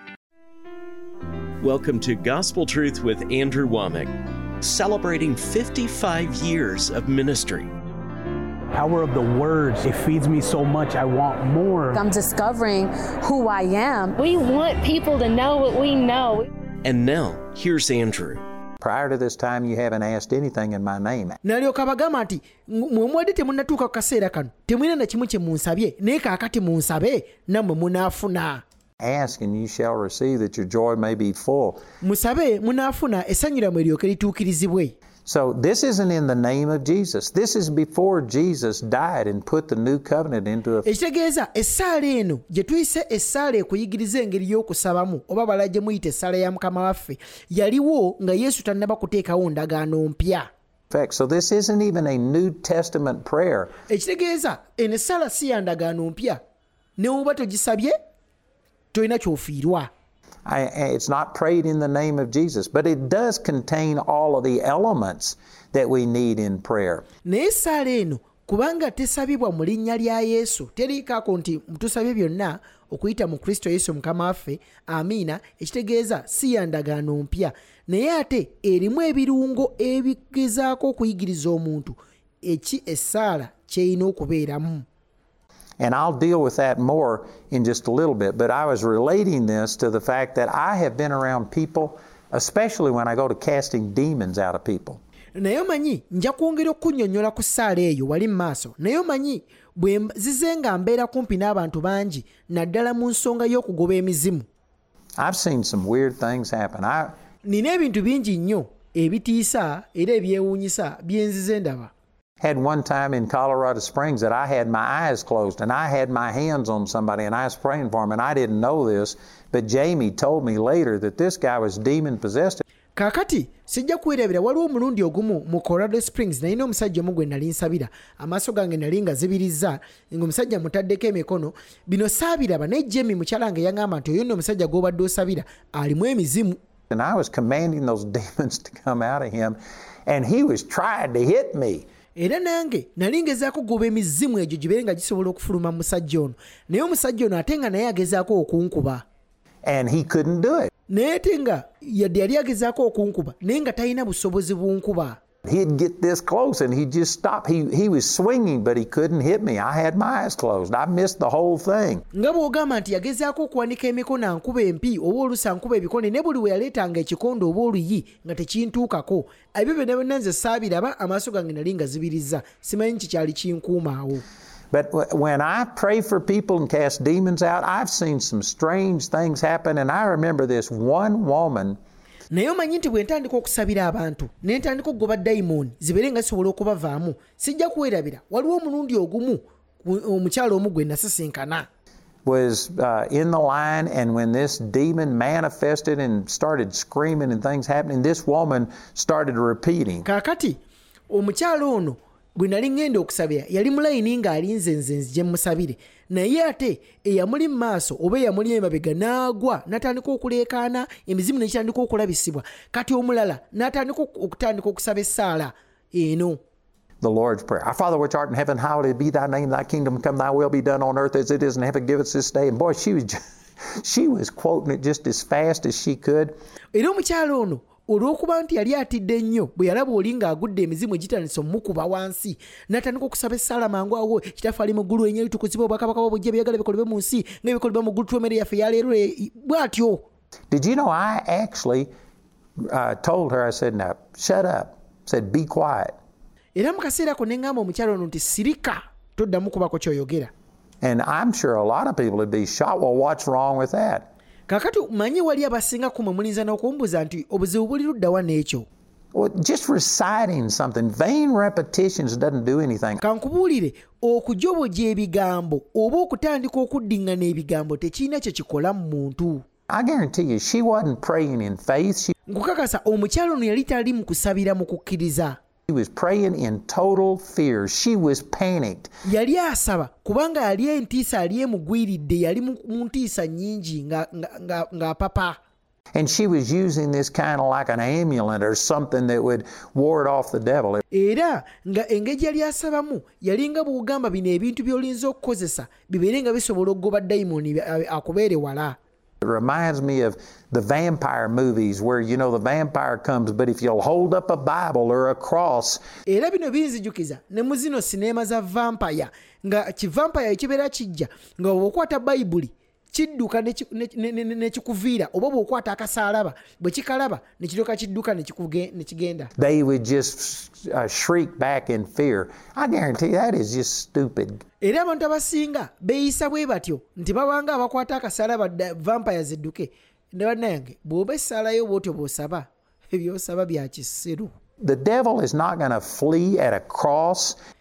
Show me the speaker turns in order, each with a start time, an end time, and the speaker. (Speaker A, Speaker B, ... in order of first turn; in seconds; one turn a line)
Speaker A: 1.6-7.7
Speaker B: 8.7-12.0
Speaker C: 11.9-14.2
Speaker D: 14.2-16.5
Speaker A: 16.8-18.4
Speaker E: 18.8-21.4
Speaker F: 21.4-28.6
Speaker E: 29.0-31.8
Speaker F: 32.0-35.0
Speaker E: 35.3-40.9
Speaker F: 40.8-50.5
Speaker E: 50.9-53.7
Speaker F: 53.9-56.4
Speaker F: 57.0-58.0
Speaker F: 58.9-59.9
Speaker E: 60.5-67.1
Speaker F: 67.2-84.8
Speaker E: 85.8-95.0
Speaker F: 95.4-104.5
Speaker E: 105.2-107.2
Speaker F: 107.5-111.9
Speaker E: 112.4-122.6
Speaker F: 123.0-136.6
Speaker E: 136.9-141.9
Speaker F: 142.2-149.0
Speaker E: 149.6-150.7
Speaker F: 150.9-155.2
Speaker E: 155.4-162.1
Speaker F: 162.1-174.2
Speaker E: 174.7-181.8
Speaker F: 182.3-191.7
Speaker E: 192.2-200.1
Speaker F: 200.0-200.6
Speaker F: 201.1-216.4
Speaker E: 217.0-226.3
Speaker F: 226.7-240.1
Speaker E: 240.5-241.9
Speaker E: 242.6-246.0
Speaker F: 246.6-250.3
Speaker E: 250.8-254.1
Speaker F: 254.5-258.7
Speaker E: 259.1-263.0
Speaker F: 263.0-269.4
Speaker E: 269.7-272.1
Speaker F: 272.3-275.4
Speaker E: 275.7-278.9
Speaker F: 279.1-285.4
Speaker E: 285.9-290.8
Speaker F: 290.9-298.8
Speaker E: 299.2-305.8
Speaker F: 306.1-319.3
Speaker E: 319.4-324.4
Speaker F: 324.6-334.3
Speaker E: 334.6-337.4